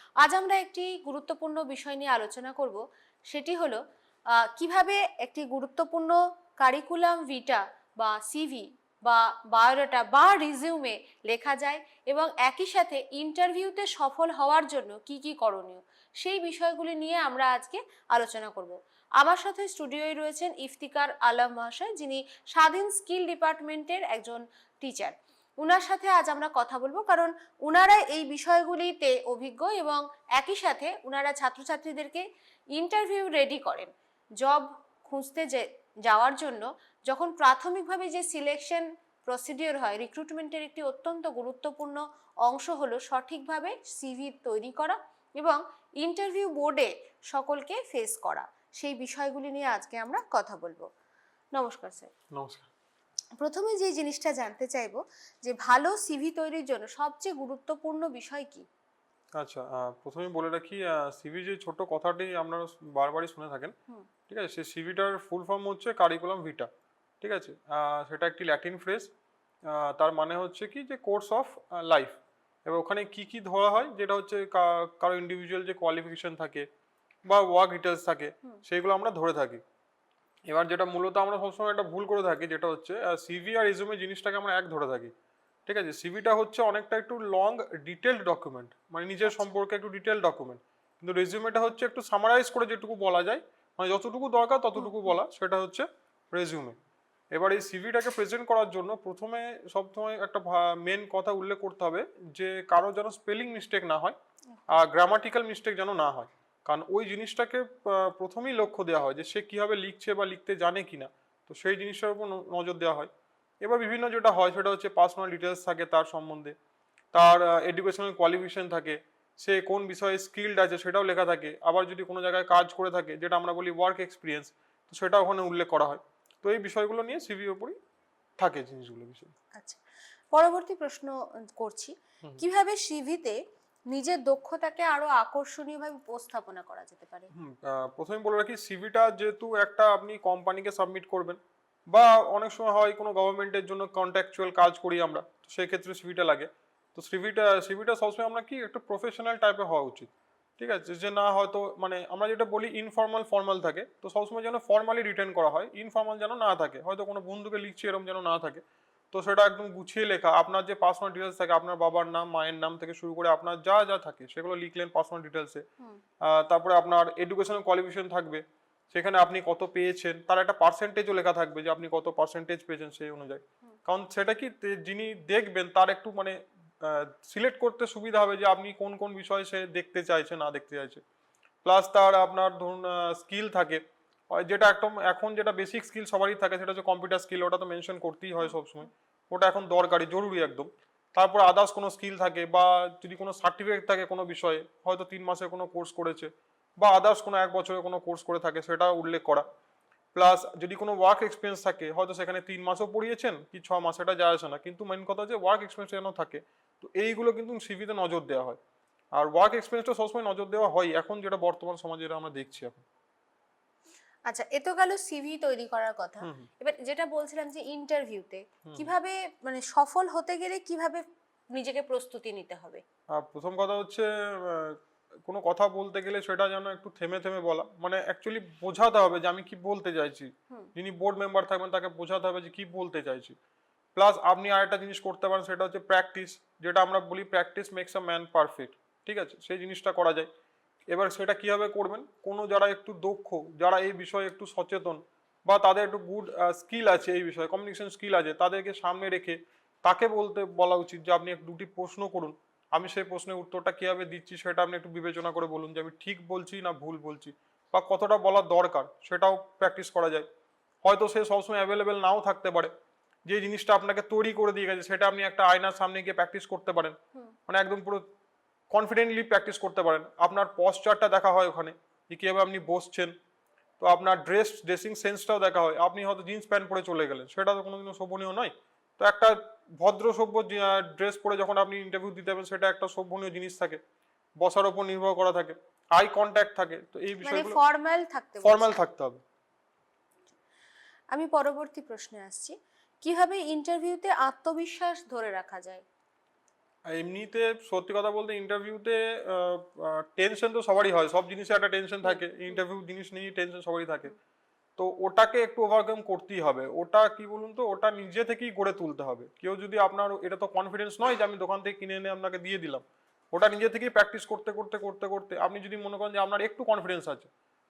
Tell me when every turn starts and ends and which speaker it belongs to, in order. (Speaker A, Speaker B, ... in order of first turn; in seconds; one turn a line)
Speaker A: 0.2-3.8
Speaker A: 4.4-32.2
Speaker A: 32.8-50.9
Speaker A: 51.6-52.1
Speaker B: 52.3-52.7
Speaker A: 53.4-58.7
Speaker B: 59.4-63.7
Speaker B: 64.3-66.7
Speaker B: 67.2-69.1
Speaker B: 69.7-76.7
Speaker B: 77.3-79.6
Speaker B: 80.5-85.1
Speaker B: 85.7-96.8
Speaker A: 89.3-89.5
Speaker A: 94.8-95.1
Speaker B: 97.3-104.2
Speaker B: 104.7-113.1
Speaker B: 113.6-116.5
Speaker B: 117.1-127.8
Speaker B: 128.4-129.3
Speaker A: 130.3-133.4
Speaker A: 133.9-137.3
Speaker B: 137.4-141.4
Speaker B: 141.9-165.6
Speaker B: 166.2-181.0
Speaker B: 181.6-199.4
Speaker B: 200.2-208.6
Speaker B: 209.2-212.8
Speaker A: 214.3-222.8
Speaker B: 216.2-216.5
Speaker B: 218.7-218.9
Speaker B: 223.2-233.4
Speaker B: 234.0-240.3
Speaker B: 240.9-260.3
Speaker B: 260.8-262.7
Speaker B: 263.3-267.0
Speaker B: 267.5-268.1
Speaker B: 268.7-273.1
Speaker B: 273.8-283.8
Speaker B: 284.4-287.6
Speaker A: 287.2-288.8
Speaker B: 288.4-289.2
Speaker A: 291.1-295.9
Speaker B: 296.9-304.1
Speaker A: 302.0-302.6
Speaker B: 304.8-317.3